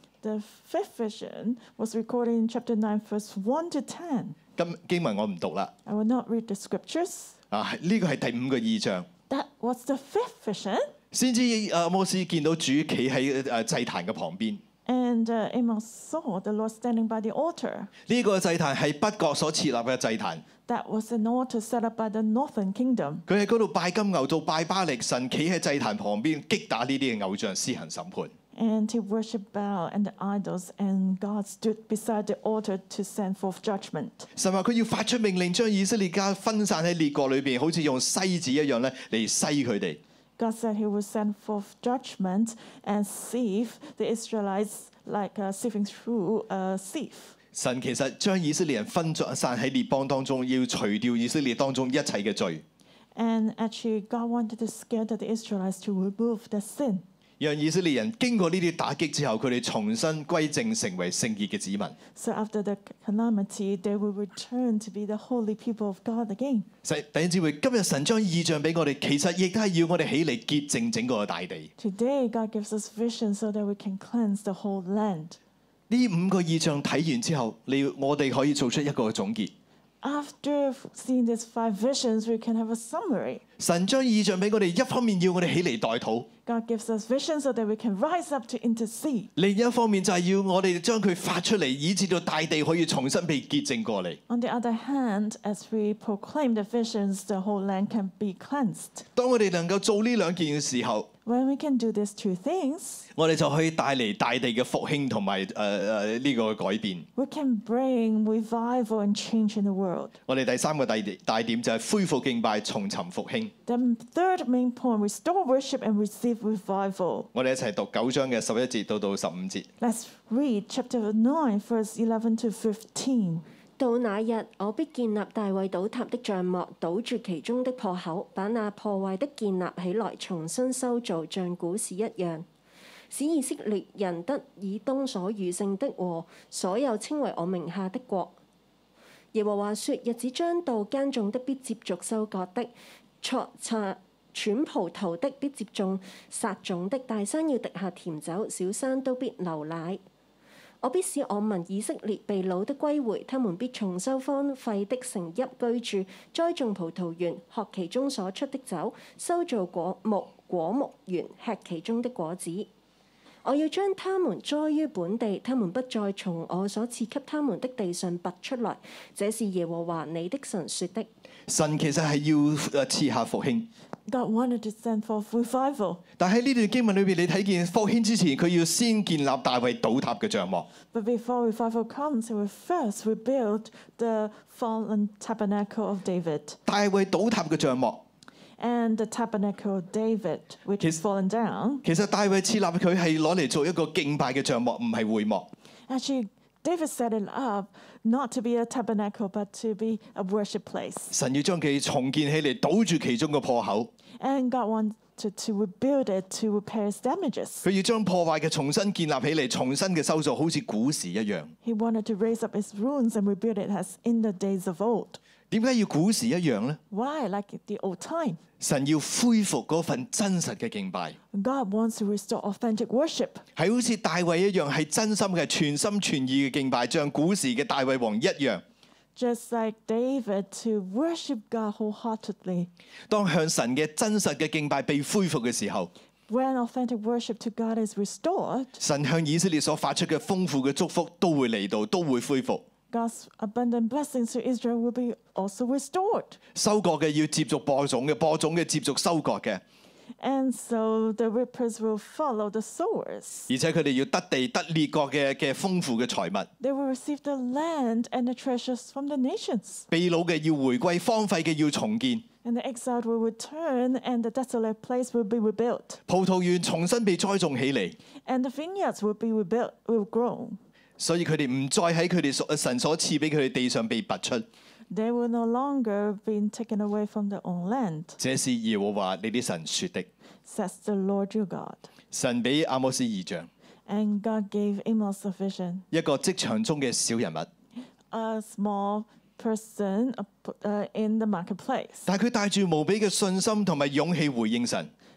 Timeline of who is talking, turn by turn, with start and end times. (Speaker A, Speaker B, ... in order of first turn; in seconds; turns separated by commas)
Speaker A: 0.2-4.3, Speaker B: 4.6-5.7, Speaker A: 5.8-7.3, Speaker B: 7.5-9.1, Speaker A: 9.3-10.9, Speaker B: 11.1-14.6, Speaker A: 14.8-17.9, Speaker B: 18.1-20.4, Speaker A: 20.7-23.2, Speaker B: 23.3-28.3, Speaker A: 28.5-34.3, Speaker B: 34.3-40.0, Speaker A: 40.4-47.3, Speaker B: 47.5-52.6, Speaker A: 53.1-57.0, Speaker B: 57.4-62.0, Speaker A: 62.1-66.7, Speaker B: 66.8-71.7, Speaker A: 71.8-75.4, Speaker B: 75.9-79.5, Speaker A: 80.0-83.4, Speaker B: 83.6-86.3, Speaker A: 86.5-89.3, Speaker B: 89.3-94.2, Speaker A: 94.3-99.0, Speaker B: 99.2-101.1, Speaker A: 101.2-103.1, Speaker B: 103.2-107.1, Speaker A: 107.2-110.2, Speaker B: 110.3-113.5, Speaker A: 113.7-117.3, Speaker B: 117.3-119.7, Speaker A: 119.8-123.4, Speaker C: 123.8-132.4, Speaker C: 133.1-138.3, Speaker C: 139.3-150.0, Speaker C: 150.8-162.7, Speaker C: 163.4-171.1, Speaker B: 171.5-173.7, Speaker A: 174.1-176.0, Speaker B: 176.2-180.7, Speaker A: 180.9-186.6, Speaker B: 186.7-188.0, Speaker A: 188.6-191.8, Speaker B: 191.8-195.5, Speaker A: 195.9-201.1, Speaker B: 201.1-203.9, Speaker A: 204.2-207.6, Speaker B: 207.6-211.5, Speaker A: 211.6-215.2, Speaker B: 215.5-216.8, Speaker A: 216.9-218.4, Speaker B: 218.6-221.2, Speaker A: 221.3-223.4, Speaker B: 223.6-228.6, Speaker A: 229.2-232.7, Speaker B: 233.1-235.9, Speaker A: 236.3-238.8, Speaker B: 238.8-242.6, Speaker A: 242.9-246.4, Speaker B: 246.5-249.6, Speaker A: 250.2-253.5, Speaker B: 253.5-256.5, Speaker A: 256.6-259.9, Speaker B: 259.9-262.2, Speaker A: 262.4-266.0, Speaker B: 266.1-268.0, Speaker A: 268.2-270.6, Speaker B: 271.0-274.5, Speaker A: 274.9-278.2, Speaker B: 278.2-280.1, Speaker A: 280.4-281.9, Speaker B: 282.1-283.5, Speaker A: 283.9-285.9, Speaker B: 285.9-287.5, Speaker A: 288.1-292.1, Speaker B: 292.1-294.9